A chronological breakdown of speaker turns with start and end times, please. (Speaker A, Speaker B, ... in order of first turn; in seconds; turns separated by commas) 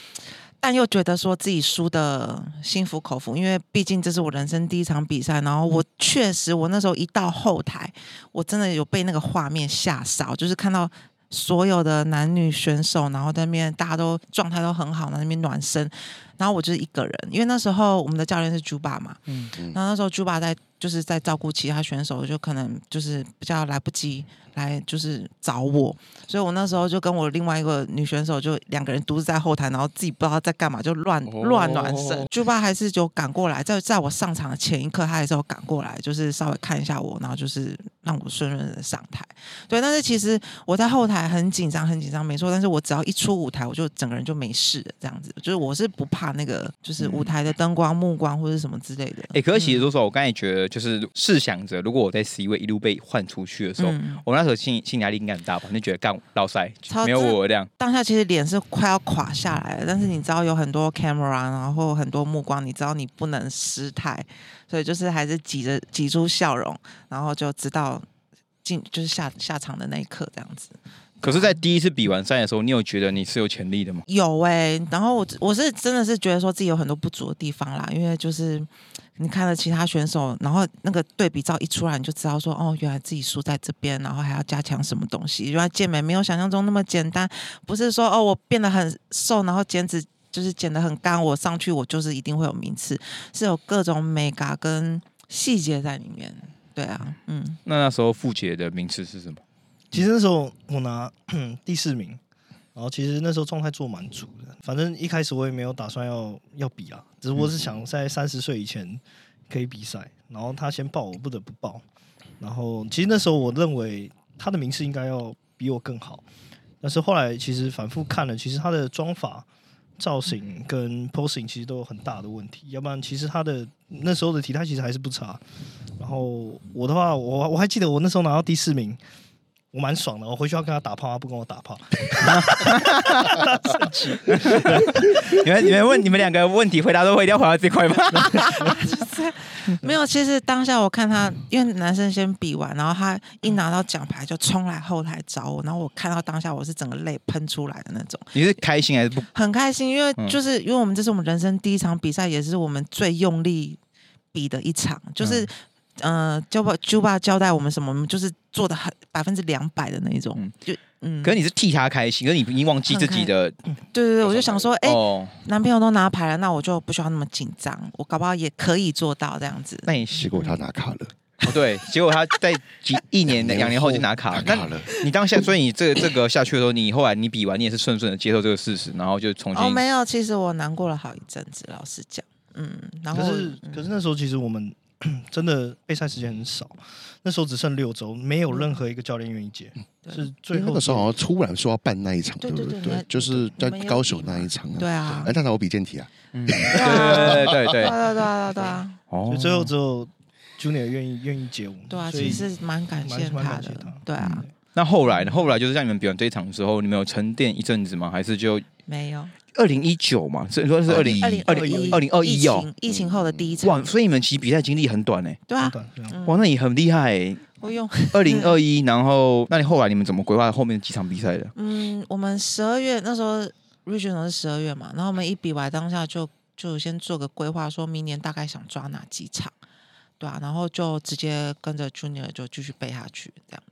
Speaker A: 0.6-49.9, Speaker B: 31.3-32.3, Speaker C: 47.0-47.3, Speaker C: 49.3-57.7, Speaker A: 53.8-54.2, Speaker A: 56.9-68.1, Speaker A: 68.6-71.6, Speaker C: 71.2-74.0, Speaker A: 74.1-97.6, Speaker C: 97.7-99.4, Speaker D: 99.9-102.2, Speaker D: 102.8-111.8, Speaker D: 112.4-116.2, Speaker D: 116.8-119.5, Speaker D: 120.0-125.4, Speaker D: 126.0-129.0, Speaker D: 129.7-135.5, Speaker C: 132.2-138.8, Speaker A: 138.5-148.4, Speaker C: 148.3-149.3, Speaker A: 149.3-153.8, Speaker A: 154.3-161.4, Speaker C: 155.2-155.5, Speaker C: 161.2-163.6, Speaker A: 162.9-163.3, Speaker A: 163.9-170.6, Speaker C: 164.6-165.4, Speaker C: 169.9-170.3, Speaker B: 170.2-171.1, Speaker C: 171.4-179.8, Speaker B: 173.3-174.9, Speaker A: 179.5-183.8, Speaker D: 183.1-191.1, Speaker B: 190.5-197.8, Speaker A: 192.4-195.3, Speaker C: 196.3-198.0, Speaker A: 196.7-199.0, Speaker C: 199.1-199.7, Speaker D: 199.3-202.5, Speaker A: 201.9-204.5, Speaker D: 203.0-204.5, Speaker C: 204.2-208.7, Speaker A: 208.9-209.3, Speaker C: 209.5-212.7, Speaker B: 210.9-211.4, Speaker A: 211.2-213.8, Speaker D: 211.5-212.0, Speaker B: 212.9-213.6, Speaker C: 213.6-215.4, Speaker A: 215.5-216.4, Speaker D: 215.6-216.2, Speaker C: 216.3-217.4, Speaker A: 217.6-218.6, Speaker C: 218.1-221.5, Speaker A: 221.6-229.5, Speaker A: 230.2-233.6